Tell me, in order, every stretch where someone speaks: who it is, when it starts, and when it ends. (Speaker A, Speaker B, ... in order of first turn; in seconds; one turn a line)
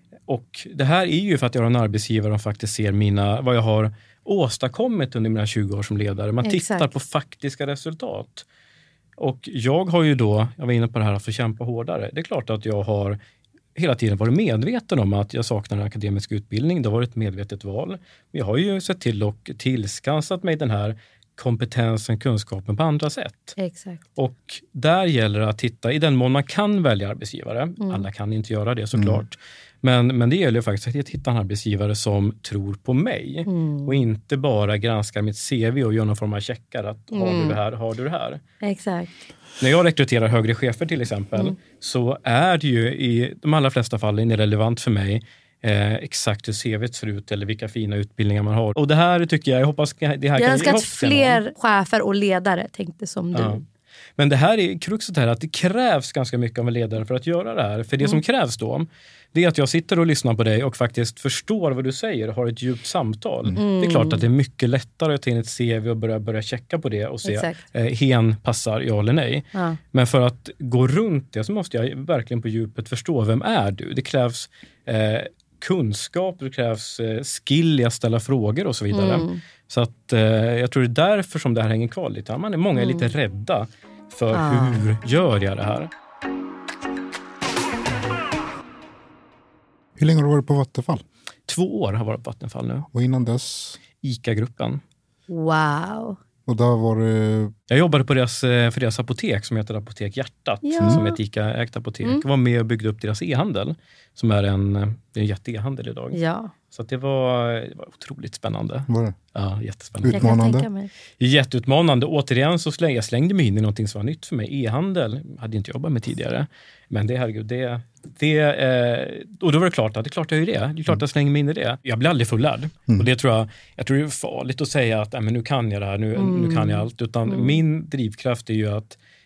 Speaker A: 0.3-8.4
Speaker B: 6.4-6.9
Speaker A: 9.2-13.2
Speaker A: 13.8-23.6
Speaker B: 23.6-24.0
Speaker A: 24.2-38.4
Speaker B: 27.8-28.1
Speaker C: 28.9-29.2
Speaker B: 33.5-34.0
Speaker B: 37.1-37.6
Speaker B: 38.6-39.2
Speaker A: 39.6-51.4
Speaker B: 50.4-53.6
Speaker A: 53.3-53.6
Speaker A: 54.2-85.9
Speaker B: 63.6-64.2
Speaker B: 67.2-67.6
Speaker B: 78.9-79.4
Speaker B: 82.8-83.1
Speaker B: 84.3-84.8
Speaker C: 90.0-91.0
Speaker A: 91.5-92.9
Speaker C: 92.9-93.8
Speaker A: 94.0-94.8
Speaker B: 95.3-96.2
Speaker C: 96.5-97.5
Speaker A: 97.7-106.2
Speaker B: 100.6-101.2
Speaker B: 106.1-106.5
Speaker A: 106.7-110.4
Speaker C: 108.9-109.2
Speaker C: 110.0-110.7
Speaker B: 110.1-110.9
Speaker A: 111.2-129.0
Speaker B: 126.2-127.6